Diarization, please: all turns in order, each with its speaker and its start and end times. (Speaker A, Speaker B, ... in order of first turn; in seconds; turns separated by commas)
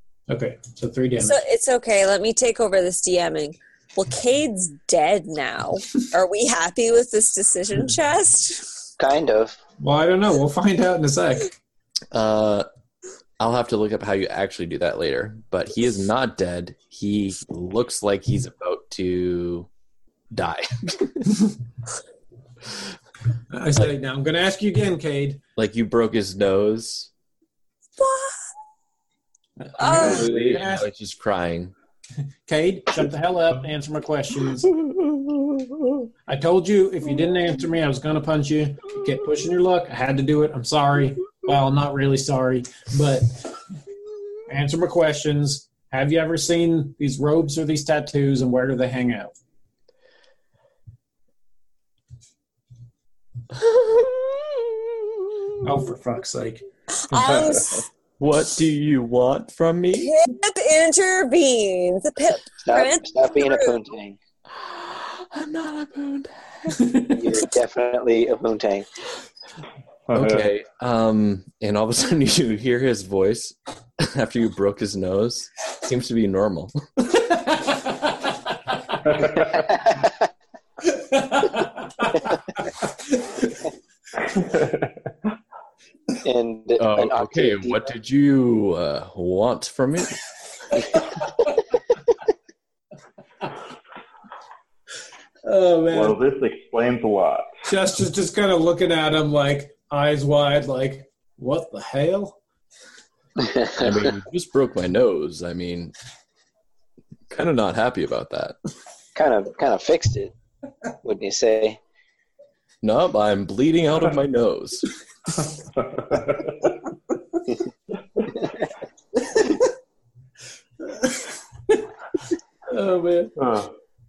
Speaker A: 0.3-1.4, Speaker B: 1.2-8.9, Speaker C: 9.0-9.6, Speaker A: 9.8-11.5, Speaker D: 12.1-12.7, Speaker D: 13.4-19.7, Speaker D: 20.3-21.4, Speaker A: 23.5-25.4, Speaker D: 25.6-27.1, Speaker B: 28.0-28.3, Speaker A: 29.6-30.9, Speaker B: 29.8-30.3, Speaker D: 29.9-31.7, Speaker A: 32.5-34.7, Speaker A: 36.3-43.6, Speaker A: 44.5-49.3, Speaker D: 53.7-54.3, Speaker A: 55.6-57.6, Speaker B: 57.0-57.8, Speaker D: 58.2-60.1, Speaker B: 59.9-63.7, Speaker C: 62.6-64.2, Speaker D: 64.5-67.0, Speaker A: 66.7-67.1, Speaker C: 67.1-68.9, Speaker E: 70.1-70.4, Speaker D: 70.1-77.2, Speaker A: 80.8-83.6, Speaker E: 84.3-84.8, Speaker C: 86.2-87.8, Speaker D: 86.8-90.2, Speaker A: 95.4-96.2, Speaker E: 95.9-97.5, Speaker A: 97.7-102.4, Speaker C: 103.4-103.8, Speaker D: 103.7-105.9, Speaker D: 107.3-108.6, Speaker C: 109.1-110.3, Speaker C: 111.0-111.8, Speaker D: 112.8-114.9, Speaker E: 116.0-116.4, Speaker A: 120.8-121.8, Speaker A: 122.7-123.3, Speaker E: 123.4-123.7